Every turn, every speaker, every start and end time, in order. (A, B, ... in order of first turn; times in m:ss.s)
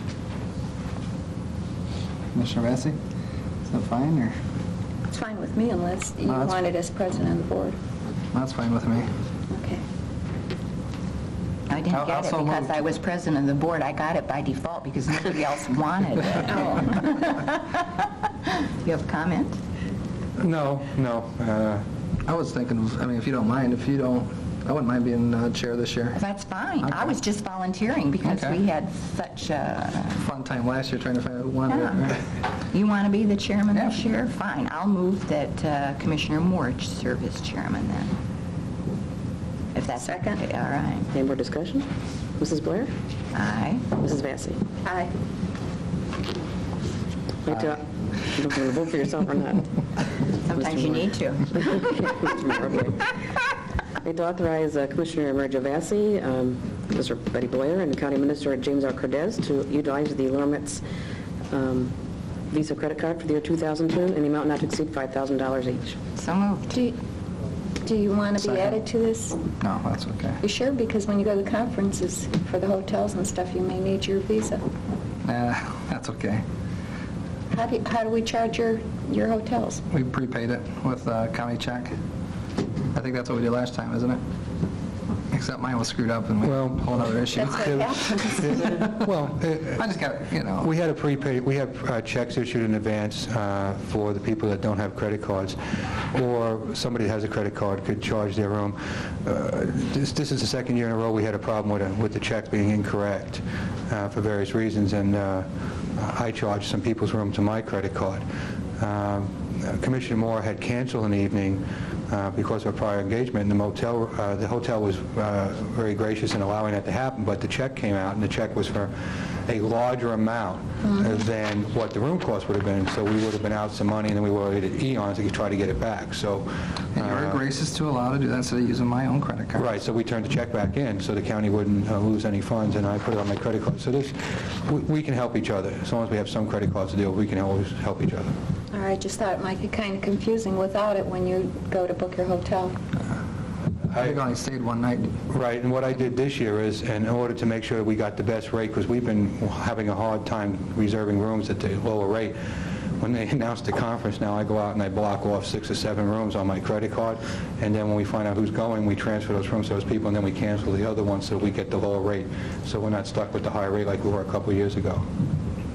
0:02.3-0:03.0 A
0:03.7-0:04.3 A
0:05.1-0:07.8 B
0:06.3-0:06.6 A
0:08.3-0:09.1 A
0:09.5-0:09.8 B
0:11.7-0:19.6 C
0:11.9-0:12.8 A
0:20.4-0:21.8 D
0:22.2-0:26.2 A
0:26.2-0:30.2 C
0:26.8-0:27.1 A
0:28.2-0:28.6 A
0:30.2-0:32.2 A
0:31.7-0:38.1 C
0:33.7-0:34.0 A
0:39.7-0:41.1 C
0:40.0-0:40.4 B
0:41.1-0:41.9 E
0:42.4-0:42.9 E
0:43.3-0:44.0 C
0:44.0-0:44.6 E
0:44.8-0:45.1 B
0:47.4-0:49.6 E
0:50.4-0:51.9 C
0:50.5-0:53.1 E
0:54.0-1:00.8 E
1:01.5-1:01.9 E
1:02.5-1:06.0 E
1:06.2-1:06.8 C
1:07.8-1:09.4 B
1:08.4-1:08.8 A
1:09.6-1:10.4 A
1:10.4-1:14.6 B
1:15.2-1:16.4 A
1:17.5-1:19.8 B
1:19.9-1:21.9 A
1:22.9-1:24.2 A
1:25.3-1:27.6 A
1:26.4-1:29.9 D
1:27.3-1:28.6 B
1:29.8-1:30.7 A
1:30.5-1:48.2 D
1:48.8-2:07.4 D
2:06.9-2:09.7 A
2:09.6-2:18.3 D
2:18.7-2:22.8 B
2:23.9-2:24.2 D
2:24.0-2:25.2 A
2:25.3-2:45.0 D